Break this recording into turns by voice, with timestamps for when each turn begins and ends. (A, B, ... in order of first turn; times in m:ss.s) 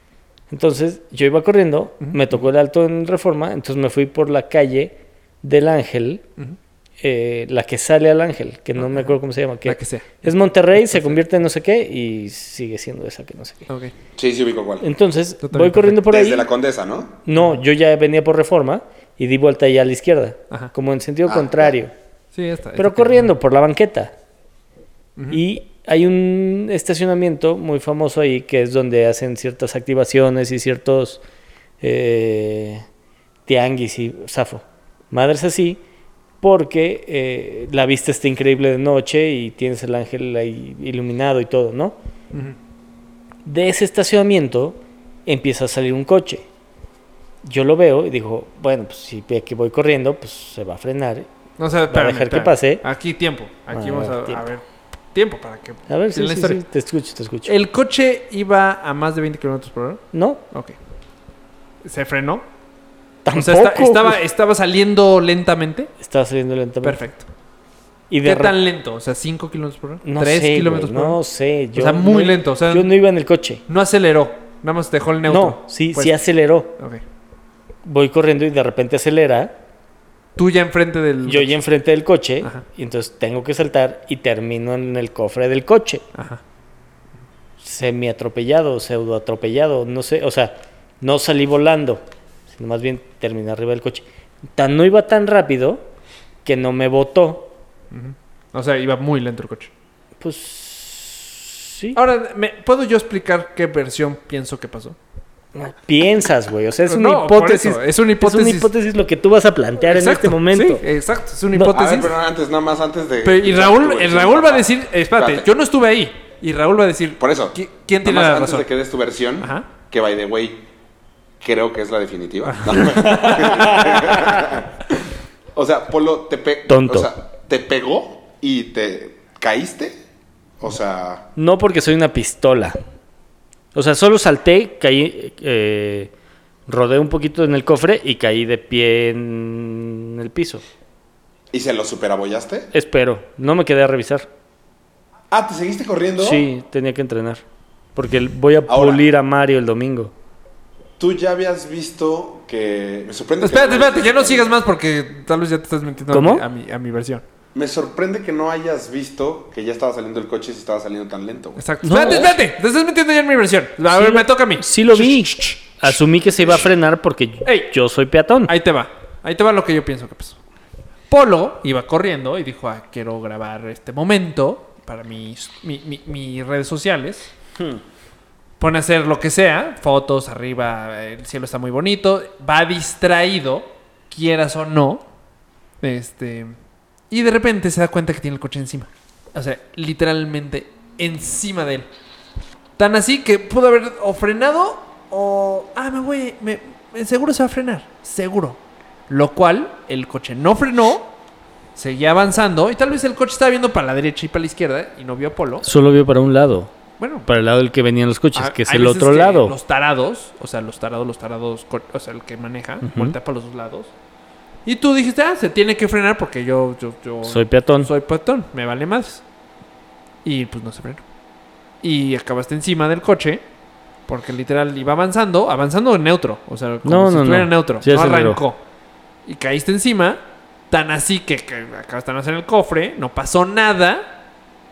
0:00.5-0:06.2 A
0:02.0-0:02.3 B
0:07.0-0:13.7 A
0:08.8-0:09.1 B
0:09.6-0:11.2 B
0:14.2-0:14.9 C
0:14.8-0:16.5 A
0:15.4-0:16.0 B
0:16.0-0:17.2 C
0:17.2-0:21.9 A
0:21.2-0:21.7 C
0:22.3-0:23.3 B
0:22.8-0:24.1 A
0:25.3-0:31.2 A
0:31.8-0:32.8 A
0:33.5-0:35.8 A
0:36.4-0:42.0 A
0:43.4-0:46.4 A
0:47.4-0:51.3 A
0:51.6-0:56.6 B
0:51.9-0:52.8 A
0:53.7-0:54.5 A
0:55.9-0:57.5 A
0:57.4-1:00.8 B
1:00.1-1:00.4 A
1:01.8-1:02.4 B
1:03.2-1:04.2 A
1:03.3-1:05.9 B
1:06.0-1:07.0 A
1:06.8-1:07.3 B
1:08.1-1:08.5 A
1:08.2-1:11.2 B
1:10.0-1:13.6 A
1:11.8-1:12.9 B
1:13.7-1:16.2 B
1:15.2-1:16.7 A
1:16.8-1:17.0 B
1:17.8-1:19.5 A
1:20.4-1:21.6 B
1:21.3-1:26.0 A
1:26.1-1:26.4 B
1:27.6-1:34.0 A
1:34.6-1:35.8 A
1:36.4-1:37.5 A
1:37.9-1:39.7 B
1:40.2-1:42.0 A
1:42.0-1:45.0 B
1:45.5-1:50.8 A
1:46.9-1:48.7 B
1:49.8-1:52.2 B
1:51.7-1:55.5 C
1:53.2-1:58.7 B
1:57.2-2:00.7 C
1:59.4-1:59.7 B
2:01.4-2:05.0 C
2:02.4-2:03.8 B
2:02.9-2:04.4 A
2:05.5-2:10.0 C
2:06.7-2:07.1 A
2:10.6-2:11.3 C
2:11.4-2:12.8 A
2:13.7-2:16.1 A
2:16.7-2:20.6 A
2:21.5-2:22.7 C
2:22.7-2:24.3 A
2:25.3-2:26.4 C
2:26.2-2:27.4 A
2:28.0-2:30.1 A
2:28.7-2:29.0 C
2:31.0-2:34.6 C
2:33.4-2:37.2 B
2:36.1-2:36.4 A
2:37.5-2:41.6 C
2:41.6-2:45.8 B
2:41.8-2:42.4 A
2:43.9-2:48.5 A
2:47.4-2:47.7 B
2:48.5-2:50.4 B
2:51.1-2:57.3 B
2:58.6-3:05.0 B
3:05.8-3:06.6 B
3:07.1-3:11.9 B
3:12.8-3:21.1 B
3:21.8-3:25.6 B
3:25.6-3:26.7 A
3:27.0-3:27.3 B
3:27.2-3:29.5 A
3:28.3-3:33.9 B
3:32.8-3:33.1 A
3:34.6-3:39.2 B
3:37.2-3:37.9 A
3:40.2-3:41.0 B
3:41.8-3:43.4 B
3:44.1-3:48.6 B
3:46.8-3:48.4 A
3:49.2-3:54.1 B